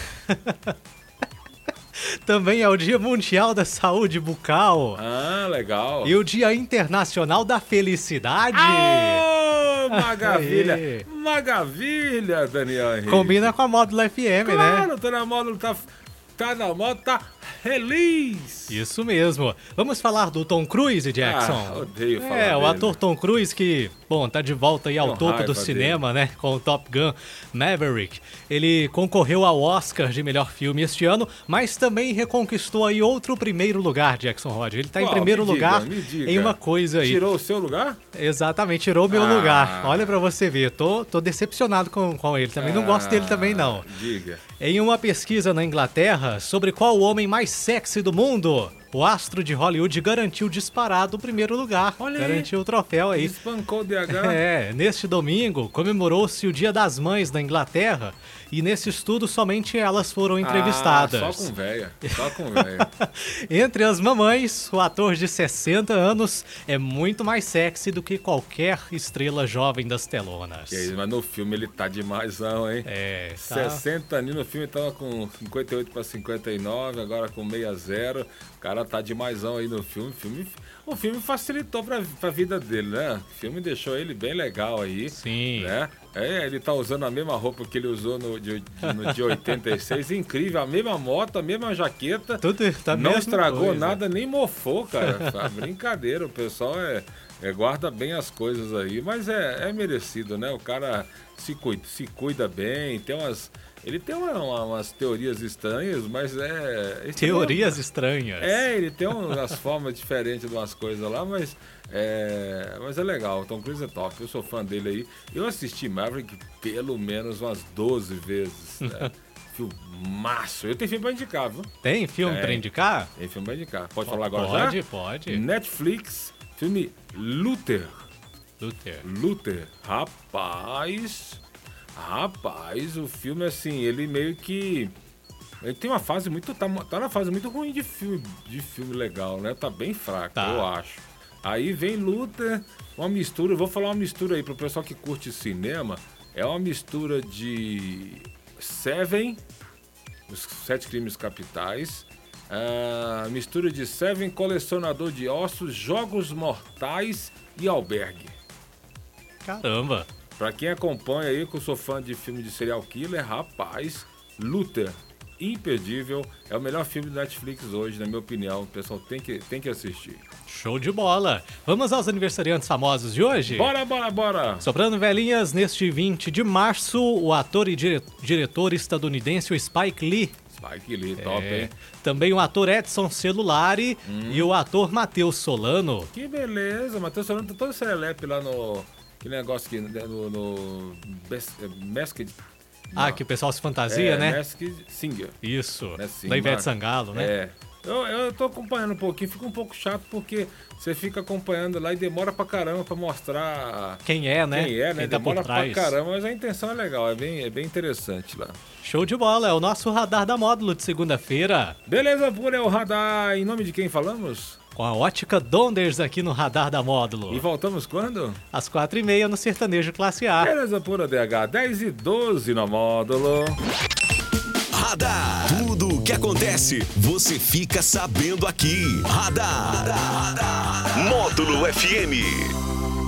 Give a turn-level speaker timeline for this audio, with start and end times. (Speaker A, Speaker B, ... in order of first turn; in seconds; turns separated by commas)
Speaker A: 0.3-0.7, Speaker A: 1.9-5.0, Speaker B: 4.9-6.2, Speaker A: 6.0-9.2, Speaker B: 8.5-13.5, Speaker A: 9.9-11.0, Speaker A: 13.1-14.9, Speaker B: 14.4-18.8, Speaker A: 18.7-37.2, Speaker B: 21.2-23.0, Speaker B: 25.0-26.0, Speaker B: 35.0-38.0, Speaker A: 38.1-43.8, Speaker B: 39.1-40.2, Speaker B: 42.6-44.4, Speaker A: 44.6-53.3, Speaker B: 52.0-52.5, Speaker B: 53.1-54.4, Speaker A: 54.1-61.5, Speaker B: 60.4-62.9, Speaker A: 62.1-70.9, Speaker B: 70.7-107.8, Speaker A: 72.8-73.8, Speaker A: 85.1-85.7, Speaker A: 92.4-94.0, Speaker A: 107.2-108.7, Speaker B: 108.4-121.7, Speaker A: 118.8-119.1, Speaker A: 121.8-123.1, Speaker B: 122.2-128.1, Speaker A: 124.0-125.4, Speaker A: 128.6-129.0, Speaker B: 129.0-131.4, Speaker B: 131.9-134.9, Speaker B: 135.6-149.4, Speaker A: 140.3-140.7, Speaker B: 150.3-158.3, Speaker A: 159.4-160.1, Speaker B: 160.4-170.2, Speaker A: 170.5-173.7, Speaker B: 173.5-174.7, Speaker A: 174.6-180.3, Speaker B: 180.5-181.7, Speaker A: 181.2-186.1, Speaker B: 184.0-184.5, Speaker B: 186.1-192.4, Speaker B: 192.9-193.2, Speaker A: 192.9-194.4, Speaker B: 193.9-208.6, Speaker A: 195.4-197.3, Speaker A: 204.0-206.0, Speaker A: 208.8-211.8, Speaker B: 211.9-214.6, Speaker A: 214.8-217.4, Speaker B: 217.3-218.4, Speaker A: 218.5-220.5, Speaker B: 220.4-223.6, Speaker C: 224.7-232.5